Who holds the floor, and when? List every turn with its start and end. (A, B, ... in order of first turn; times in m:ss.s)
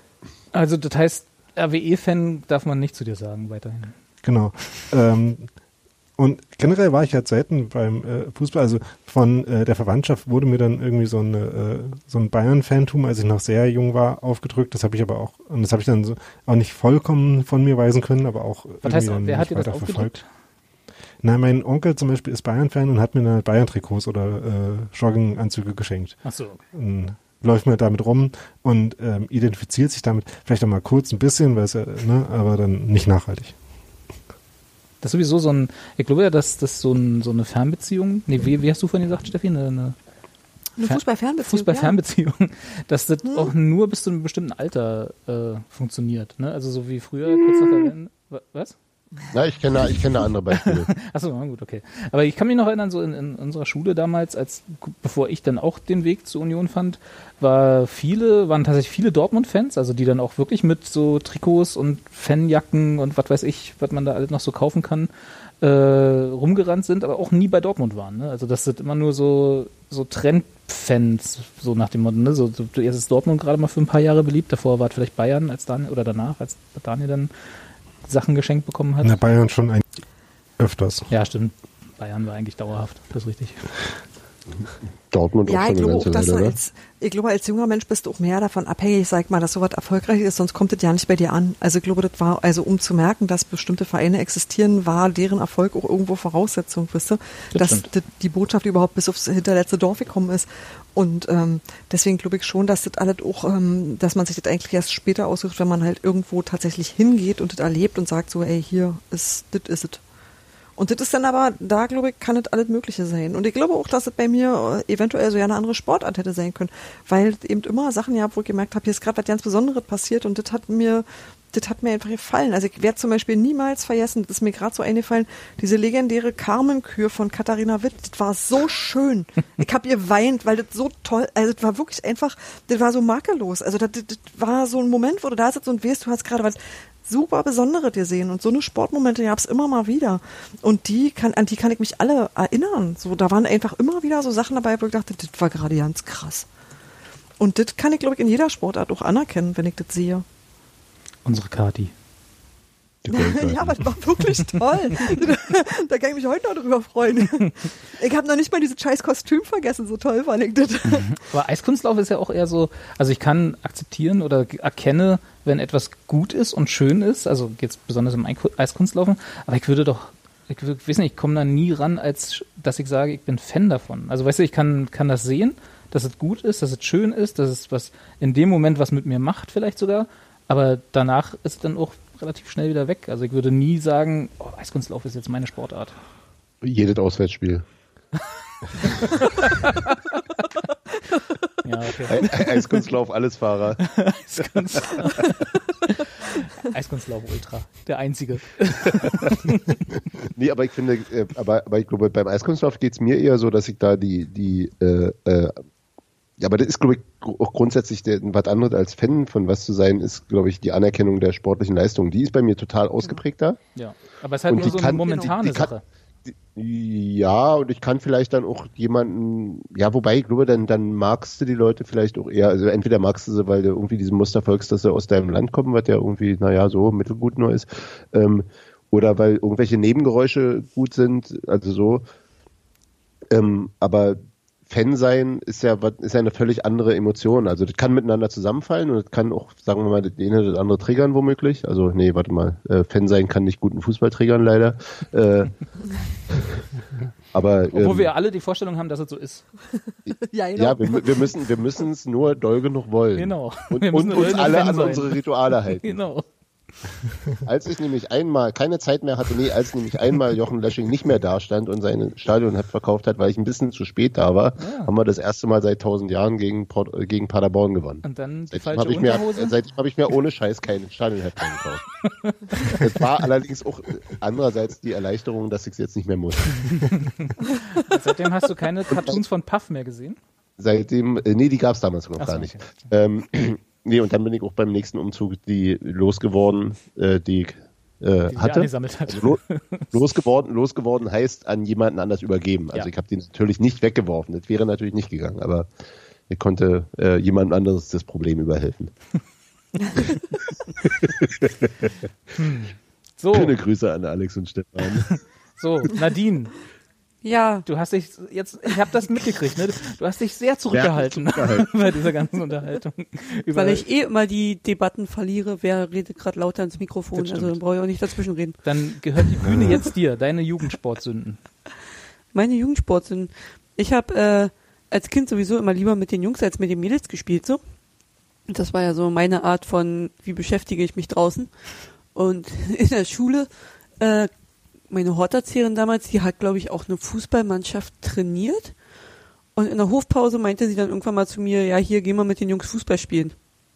0:00.5-0:03.9 A
0:04.2-0:05.5 B
0:06.2-0:20.2 B
0:18.8-0:20.3 A
0:21.2-0:26.2 B
0:26.2-0:26.6 A
0:26.7-0:33.6 B
0:35.0-0:40.0 A
0:40.8-0:42.0 C
0:40.8-0:48.8 A
0:43.2-0:43.5 C
0:49.3-0:50.9 D
0:50.5-1:05.1 A
1:05.6-1:17.3 A
1:18.0-1:19.2 A
1:19.0-1:19.8 B
1:20.6-1:21.1 B
1:21.1-1:23.6 A
1:25.1-1:26.6 D
1:25.4-1:50.0 C
1:37.5-1:37.9 A
1:50.8-2:26.5 C
2:27.4-2:30.2 C
2:31.2-2:31.9 A
2:33.0-2:33.9 D
2:33.1-2:41.1 C
2:40.9-3:06.0 A
3:06.6-3:07.6 D
3:08.8-3:09.9 A
3:11.6-3:12.8 A
3:12.1-3:13.8 D
3:13.8-3:19.8 A
3:20.3-3:25.6 D
3:26.4-3:33.6 D
3:33.8-3:35.8 A
3:34.5-3:35.7 D
3:34.6-3:35.3 C
3:36.3-3:52.0 D
3:53.3-4:05.5 D
4:07.3-4:08.1 D
4:07.7-4:09.4 A
4:10.1-4:11.3 C
4:10.6-4:16.0 D
4:13.1-4:16.2 A
4:17.4-4:31.8 D
4:24.6-4:24.9 A
4:28.0-4:29.5 A
4:32.0-4:33.0 A
4:32.6-4:36.9 D
4:36.6-4:40.2 A
4:38.9-4:39.2 D
4:40.6-4:49.4 D
4:42.2-4:42.8 A
4:48.3-4:50.0 A
4:49.9-4:55.7 D
4:56.3-4:58.9 D
5:01.0-5:01.9 D
5:02.4-5:03.6 A
5:03.3-5:05.1 D
5:04.8-5:06.5 A
5:07.2-5:07.6 E
5:07.6-5:13.8 A
5:10.7-5:11.7 D
5:13.5-5:18.6 E
5:17.2-5:17.6 A
5:18.6-5:21.4 A
5:19.4-5:19.8 B
5:22.3-5:27.6 E
5:28.5-5:31.5 E
5:32.1-5:34.3 E
5:34.9-5:38.7 E
5:39.6-5:43.3 E